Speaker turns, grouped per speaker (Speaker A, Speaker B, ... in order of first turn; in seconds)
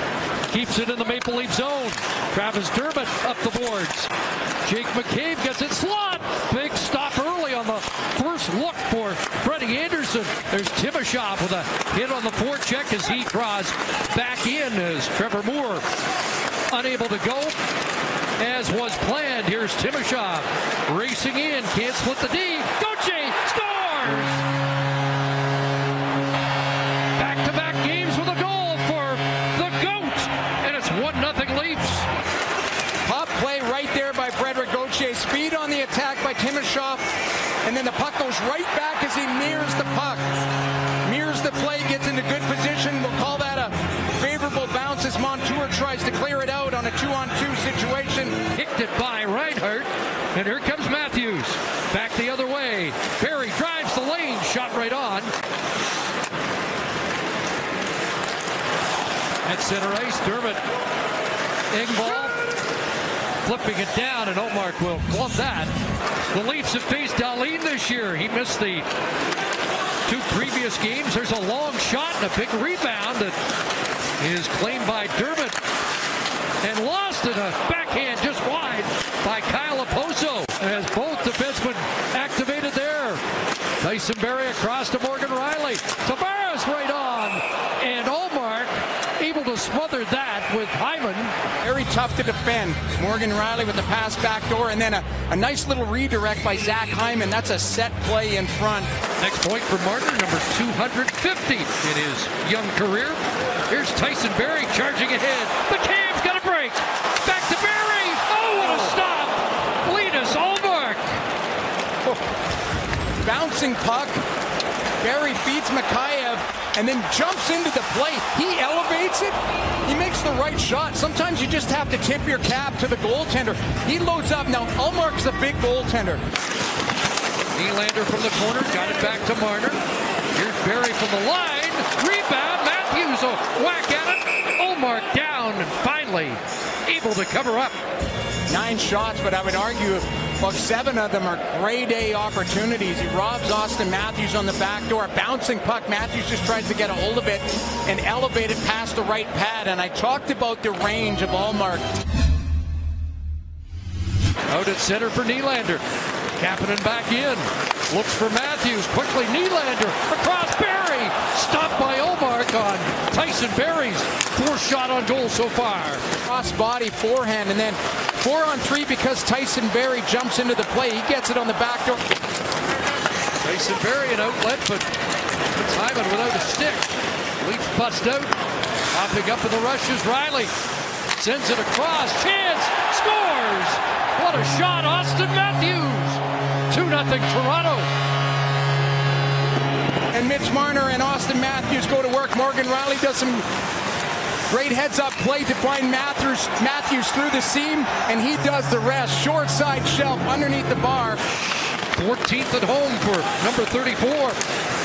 Speaker A: 0.5-4.1, 4.6-15.9, 16.7-17.6, 18.4-24.4, 27.2-32.1, 48.5-55.3, 59.5-60.6, 61.7-62.4, 63.4-65.7, 66.3-68.9, 70.1-73.4, 74.2-75.6, 76.6-83.2, 83.8-91.3, 99.2-111.2, 127.5-129.8, 130.3-137.8, 154.5-155.8, 156.4-166.0, 173.4-174.9, 175.5-178.3, 178.9-180.5, 181.2-187.9, 201.9-204.4
Speaker B: 33.0-37.0, 37.6-40.2, 41.0-48.4, 91.6-98.9, 113.2-114.2, 115.0-126.2, 138.5-151.9, 166.2-172.0, 190.1-193.5, 194.5-201.2